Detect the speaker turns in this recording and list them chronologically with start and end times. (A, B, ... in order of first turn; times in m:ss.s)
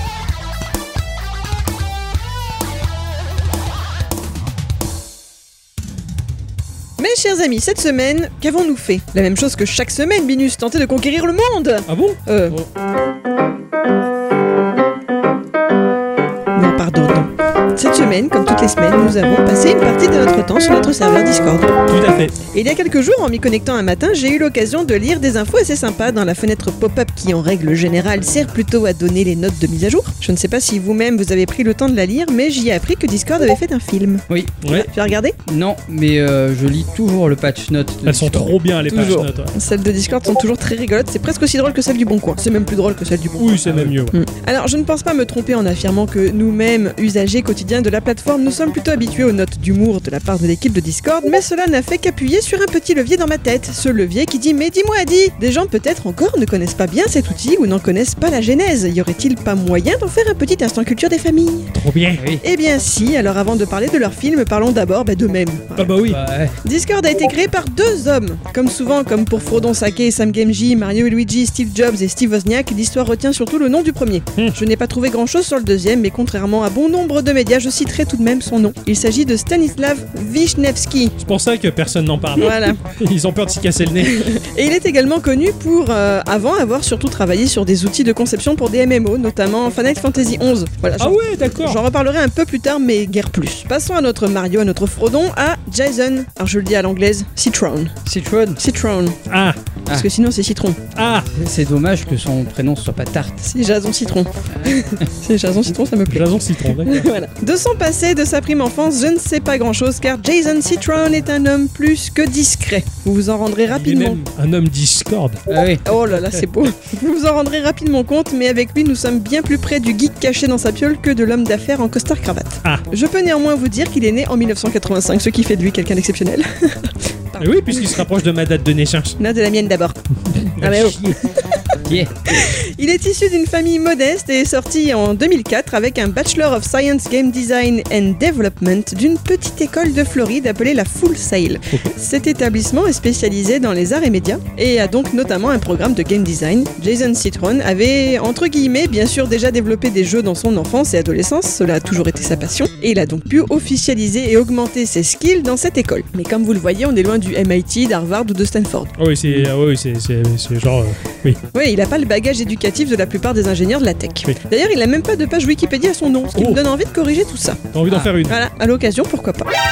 0:07.0-0:12.6 A
0:11.9-0:12.7 B
0:16.5-0:21.8 A
0:21.9-0:22.4 B
0:22.5-0:35.4 A
0:34.3-0:34.6 C
0:34.6-0:34.9 B
0:35.5-0:39.2 C
0:38.0-0:39.5 B
0:38.9-1:01.7 A
0:43.4-0:44.2 B
1:01.7-1:02.2 B
1:02.2-1:02.4 C
1:02.4-1:06.0 A
1:05.8-1:06.2 B
1:06.0-1:06.5 C
1:06.6-1:21.2 A
1:21.2-1:24.3 B
1:22.4-1:22.8 A
1:24.0-1:37.9 A
1:31.0-1:31.8 B
1:38.1-1:38.6 C
1:38.6-1:39.2 A
1:39.3-1:39.6 B
1:39.9-1:40.8 A
1:40.9-1:41.3 B
1:41.3-1:43.4 C
1:43.4-1:46.3 A
1:44.6-1:45.0 C
1:46.1-1:47.1 B
1:46.8-1:54.2 A
1:53.7-1:55.4 B
1:55.5-1:55.8 C
1:55.8-2:08.0 A
1:56.1-1:56.4 B
2:07.4-2:09.2 B
2:09.2-2:11.6 A
2:10.6-2:11.0 B
2:10.8-2:11.2 C
2:11.8-2:12.1 C
2:12.3-2:38.9 A
2:39.0-2:41.4 B
2:41.5-2:47.6 A
2:46.4-2:46.6 B
2:47.7-2:48.4 B
2:47.9-2:48.1 C
2:48.2-2:49.5 A